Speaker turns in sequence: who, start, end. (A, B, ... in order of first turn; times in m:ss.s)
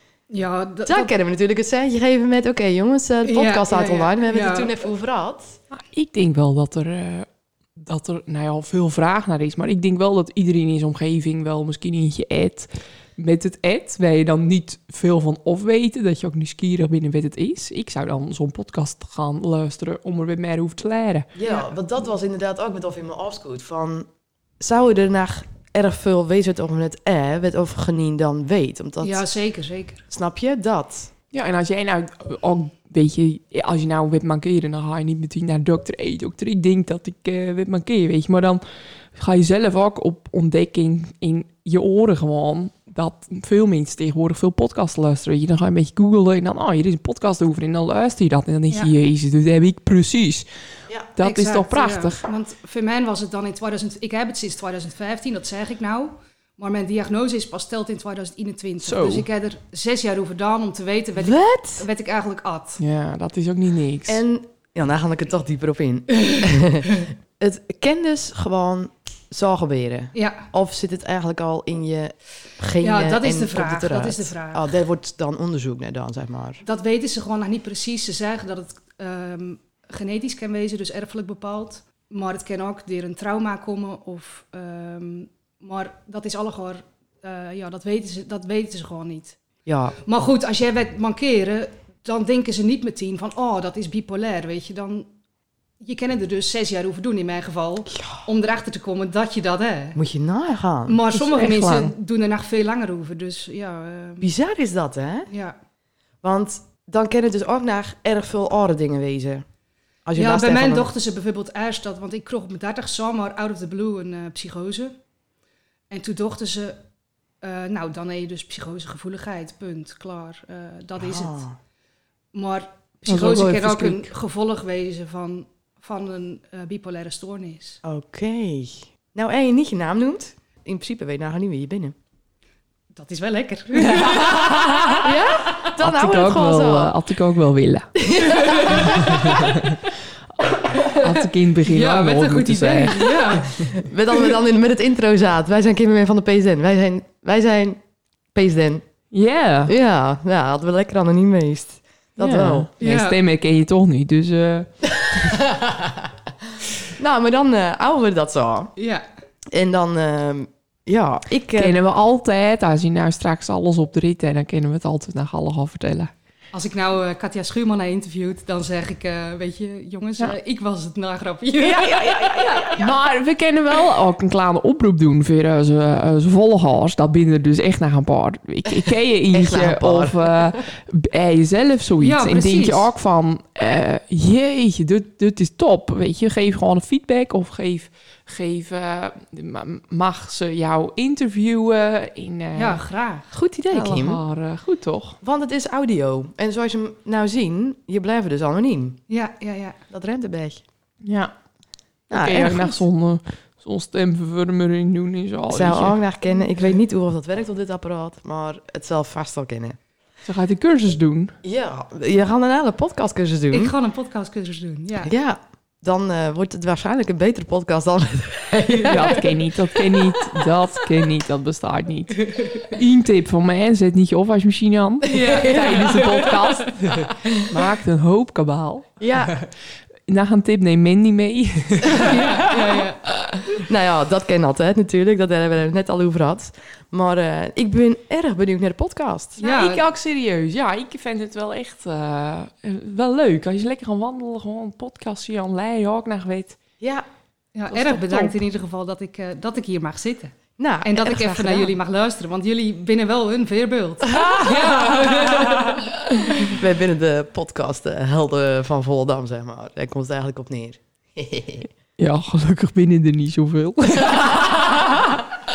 0:00.3-0:01.1 A
0:00.8-0:05.6 B
0:03.2-0:04.9 A
0:05.7-0:21.3 C
0:21.4-0:24.1 B
0:24.6-0:29.2 B
0:29.0-0:30.0 A
0:30.1-0:31.1 B
0:31.3-0:38.6 C
0:39.1-0:50.4 C
0:51.2-0:52.2 C
0:51.2-1:02.8 A
0:58.8-0:59.3 C
1:01.2-1:01.8 B
1:02.8-1:04.2 C
1:04.1-1:16.6 B
1:10.1-1:10.5 A
1:12.8-1:14.6 A
1:16.6-1:29.4 A
1:29.6-1:30.0 B
1:30.0-1:35.1 A
1:35.8-1:40.0 A
1:38.0-1:38.2 B
1:40.0-1:41.0 B
1:40.9-1:44.3 A
1:41.1-1:41.9 C
1:44.2-1:45.3 B
1:45.3-1:45.6 A
1:46.2-1:49.4 B
1:50.0-1:50.9 B
1:50.2-1:54.9 A
1:55.9-1:56.8 A
1:57.4-2:01.4 A
2:01.0-2:01.6 B
2:02.3-2:07.8 A
2:03.1-2:04.1 C
2:07.8-2:11.9 B
2:12.9-2:15.0 A
2:13.8-2:15.1 C
2:15.0-2:16.9 B
2:15.8-2:19.8 C
2:18.0-2:19.4 B
2:18.6-2:19.0 A
2:20.7-2:23.8 A
2:20.9-2:23.7 C
2:23.5-2:27.8 B
2:28.3-2:28.8 B
2:29.1-2:29.7 C
2:29.7-2:32.7 B
2:32.2-2:34.7 C
2:32.8-2:33.2 A
2:35.0-2:36.1 B
2:36.8-2:38.7 B
2:38.8-2:39.0 A
2:39.5-2:41.8 B
2:41.5-2:46.1 C
2:46.5-2:52.9 A
2:51.6-3:12.8 C
2:59.3-3:00.6 B
3:02.0-3:02.9 A
3:12.6-3:13.3 A
3:13.3-3:14.2 B
3:13.7-3:15.2 C
3:15.2-3:19.0 B
3:19.1-3:19.8 A
3:19.9-3:20.6 B
3:21.0-3:21.3 C
3:22.1-3:26.0 C
3:22.1-3:22.8 B
3:25.5-3:29.8 B
3:30.2-3:31.3 C
3:31.4-3:33.7 B
3:33.5-3:35.1 A
3:35.0-3:39.2 B
3:38.9-3:49.4 C
3:45.0-3:46.0 B
3:45.2-3:46.2 A
3:49.0-3:49.4 B
3:50.1-3:52.9 C
3:51.9-3:53.0 A
3:53.4-3:59.4 B
3:59.4-3:59.8 A
3:59.4-4:06.6 C
4:07.5-4:15.8 A
4:07.7-4:08.3 C
4:10.6-4:11.7 B
4:14.2-4:14.7 B
4:14.3-4:15.4 C
4:16.3-4:21.7 B
4:22.0-4:25.2 C